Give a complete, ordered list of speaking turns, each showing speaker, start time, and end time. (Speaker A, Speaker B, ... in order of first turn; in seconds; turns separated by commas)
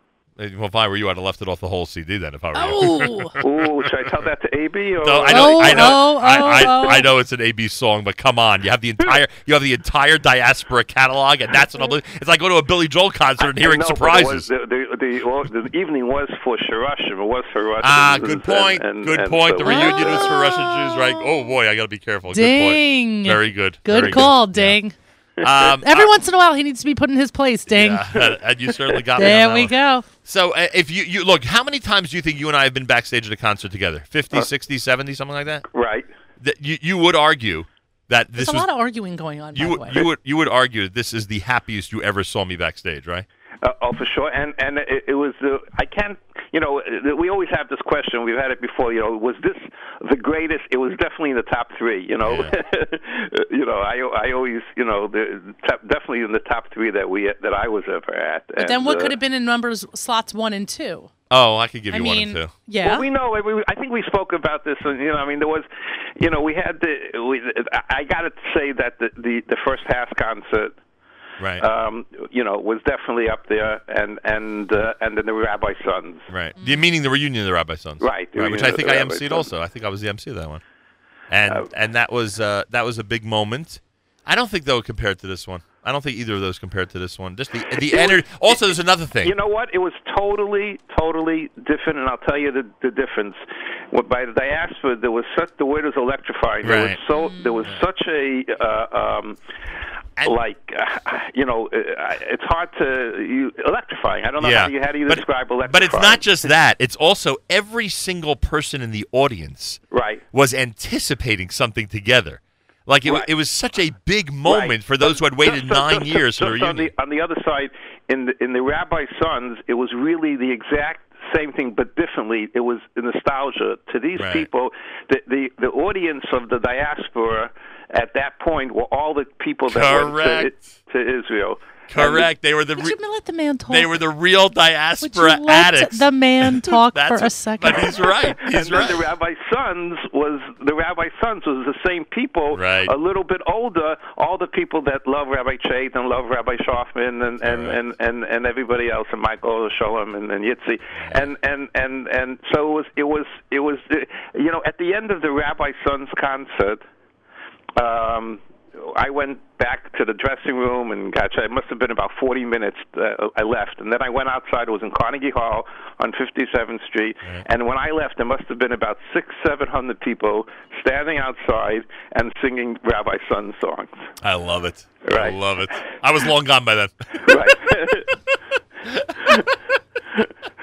Speaker A: 0.4-3.9, Speaker B: 2.5-3.4, Speaker C: 3.4-6.7, Speaker A: 5.0-14.5, Speaker B: 5.3-7.1, Speaker C: 13.4-20.3, Speaker A: 17.8-24.8, Speaker B: 19.6-21.2, Speaker B: 22.3-24.9, Speaker A: 25.4-26.1, Speaker B: 25.8-28.3, Speaker A: 27.7-35.6, Speaker B: 29.2-30.1, Speaker C: 35.7-36.1, Speaker A: 36.4-38.7, Speaker B: 38.4-40.1, Speaker A: 39.5-43.3, Speaker C: 43.6-59.2, Speaker A: 52.2-52.5, Speaker B: 58.6-61.1, Speaker A: 61.3-62.5, Speaker B: 61.9-63.0, Speaker C: 62.8-65.7, Speaker C: 66.2-70.7, Speaker A: 71.4-71.7, Speaker C: 71.6-76.3, Speaker A: 76.3-80.6, Speaker C: 78.0-79.5, Speaker A: 81.3-89.3, Speaker C: 87.8-88.6, Speaker C: 89.2-99.4, Speaker A: 96.6-97.0, Speaker B: 97.1-97.6, Speaker C: 100.2-106.3, Speaker A: 104.4-109.8, Speaker C: 109.9-110.2, Speaker A: 110.3-116.9, Speaker C: 114.5-132.3, Speaker A: 124.2-124.5, Speaker A: 129.7-130.6, Speaker A: 131.9-133.0, Speaker B: 132.8-133.9, Speaker A: 133.7-139.1, Speaker B: 135.0-138.1, Speaker C: 138.4-156.8, Speaker A: 142.5-142.9, Speaker A: 147.4-147.8, Speaker A: 151.0-151.2, Speaker C: 157.8-174.1, Speaker A: 174.2-177.3, Speaker C: 175.1-175.4, Speaker C: 177.2-178.1, Speaker A: 178.9-179.1, Speaker C: 179.2-179.5